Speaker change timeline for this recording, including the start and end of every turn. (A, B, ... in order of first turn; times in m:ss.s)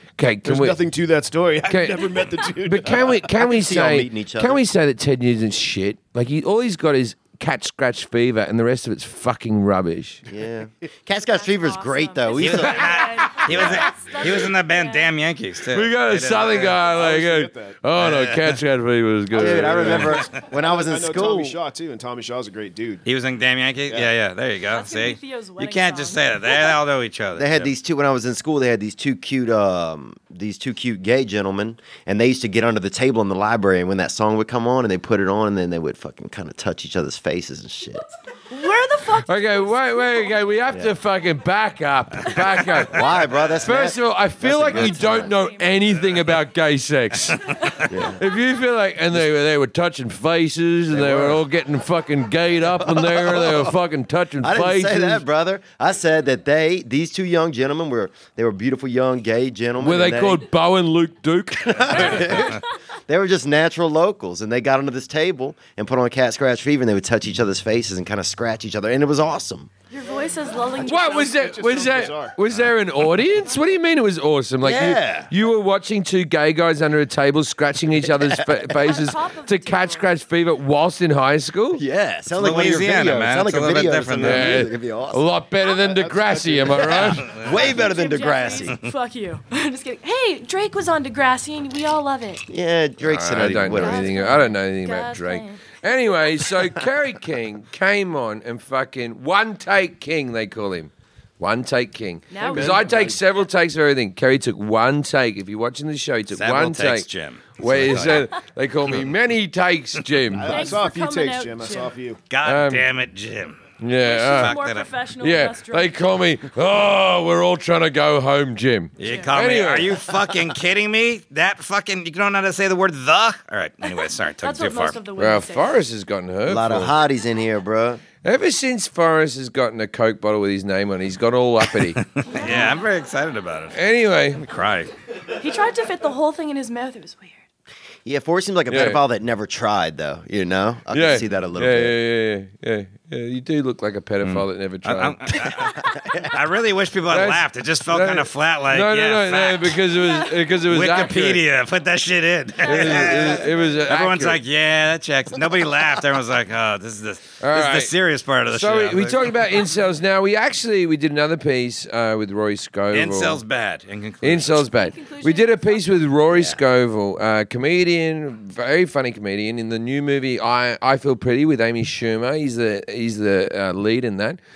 0:00.2-0:00.8 A
0:00.4-0:03.3 B
0:01.7-0:10.2 A
0:03.4-0:04.6 C
0:10.3-0:13.8 C
0:11.2-0:15.1 D
0:12.4-0:16.8 E
0:13.3-0:13.7 A
0:15.7-0:20.2 A
0:16.6-0:17.8 B
0:18.0-0:18.6 E
0:19.3-0:23.0 B
0:19.4-0:21.6 C
0:23.0-0:27.7 E
0:24.7-0:26.8 D
0:27.4-0:38.1 C
0:38.5-0:40.6 D
0:39.3-0:43.0 A
0:42.3-0:42.6 D
0:42.9-0:45.3 C
0:43.6-0:55.2 A
0:44.7-0:46.1 D
0:47.5-0:47.9 D
0:47.9-0:48.2 C
0:50.9-0:51.4 C
0:52.7-0:53.8 C
0:54.4-1:00.5 C
0:59.8-1:02.5 A
1:01.6-1:09.7 C
1:09.9-1:11.5 D
1:10.8-1:12.4 B
1:10.8-1:21.8 A
1:14.6-1:15.3 C
1:18.0-1:18.7 C
1:18.8-1:20.1 D
1:21.7-1:25.2 C
1:22.3-1:24.6 E
1:24.2-1:27.3 A
1:25.7-1:27.7 B
1:27.0-1:28.8 C
1:27.6-1:32.5 D
1:32.5-1:34.1 C
1:33.0-1:47.1 A
1:33.7-1:36.3 D
1:42.3-1:43.0 D
1:42.4-1:43.2 B
1:46.3-1:48.3 E
1:47.6-1:50.7 A
1:50.3-1:52.2 B
1:50.5-1:52.0 D
1:52.3-1:54.9 E
1:52.4-1:52.9 A
1:53.8-1:54.6 A
1:54.0-1:56.1 D
1:55.2-2:00.0 A
1:59.0-2:05.0 E
1:59.0-1:59.3 D
2:03.9-2:05.8 D
2:05.2-2:07.0 A
2:06.5-2:08.0 C
2:08.2-2:12.0 A
2:12.0-2:13.8 E
2:12.3-2:12.8 D
2:13.7-2:14.4 A
2:14.4-2:14.9 E
2:15.4-2:17.4 D
2:18.0-2:22.0 C
2:18.7-2:19.0 A
2:20.9-2:25.2 A
2:24.2-2:29.8 E
2:27.1-2:31.4 A
2:30.0-2:30.4 D
2:30.7-2:39.5 E
2:32.6-2:33.7 D
2:32.6-2:34.4 A
2:37.4-2:37.9 A
2:38.5-2:43.4 A
2:42.9-2:44.7 E
2:44.2-2:54.4 A
2:44.8-2:46.0 D
2:46.3-2:46.6 C